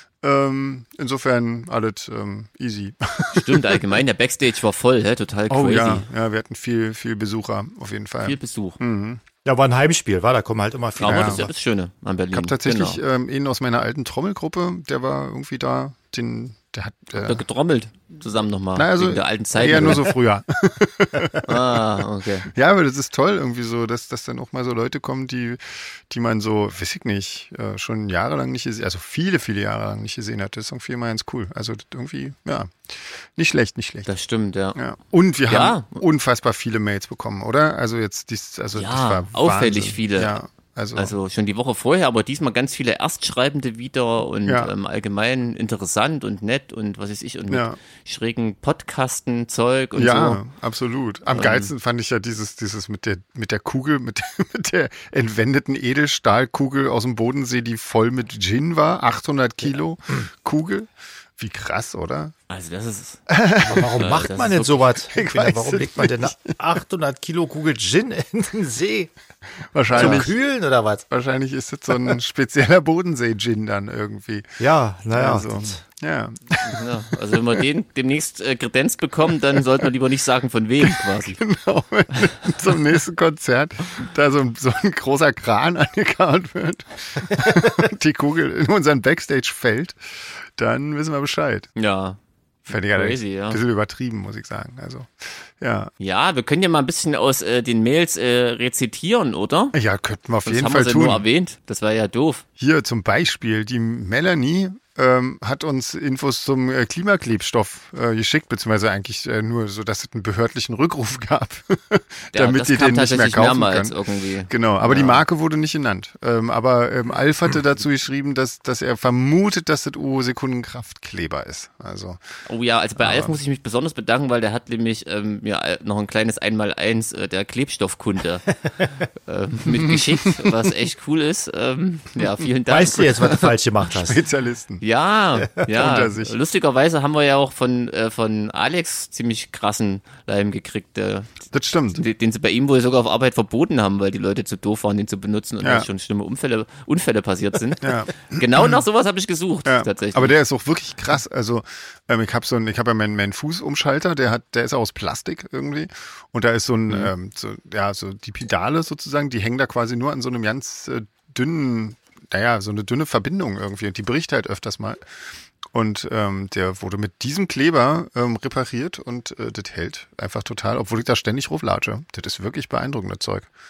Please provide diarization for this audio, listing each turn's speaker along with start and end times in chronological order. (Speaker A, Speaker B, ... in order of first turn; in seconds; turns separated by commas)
Speaker A: 0.2-4.0, Speaker B: 3.3-6.0, Speaker A: 5.5-9.2, Speaker B: 8.2-8.8, Speaker C: 9.4-11.5, Speaker B: 11.0-13.0, Speaker A: 11.0-11.5, Speaker A: 12.3-17.4, Speaker B: 17.1-20.1, Speaker A: 18.7-34.1, Speaker B: 21.4-22.5, Speaker B: 34.0-34.8, Speaker A: 34.7-41.1, Speaker B: 35.5-36.0, Speaker B: 38.7-40.3, Speaker B: 40.9-50.4, Speaker A: 44.5-44.7, Speaker A: 47.5-47.8, Speaker A: 50.0-62.3, Speaker B: 51.3-51.7, Speaker B: 62.5-63.2, Speaker A: 63.3-64.1, Speaker C: 63.6-69.1, Speaker B: 63.9-64.9, Speaker A: 65.1-66.6, Speaker A: 69.7-70.3, Speaker C: 69.9-71.0, Speaker B: 69.9-70.3, Speaker A: 71.1-74.6, Speaker C: 74.6-75.8, Speaker A: 75.1-77.6, Speaker B: 76.6-81.4, Speaker A: 80.8-91.7, Speaker B: 91.8-93.6, Speaker A: 92.7-95.9, Speaker B: 96.0-99.8, Speaker A: 99.7-101.2, Speaker B: 100.4-102.4, Speaker A: 102.6-113.9, Speaker B: 112.3-115.2, Speaker A: 114.5-122.2, Speaker B: 122.5-128.5, Speaker A: 123.0-123.4, Speaker B: 129.2-133.5, Speaker A: 129.7-130.5, Speaker C: 132.7-134.2, Speaker A: 133.9-134.8, Speaker B: 134.8-141.3, Speaker A: 135.7-136.3, Speaker A: 141.5-142.0, Speaker B: 141.9-150.3, Speaker A: 145.6-145.9, Speaker A: 147.8-148.8, Speaker A: 149.6-165.0, Speaker A: 165.7-173.5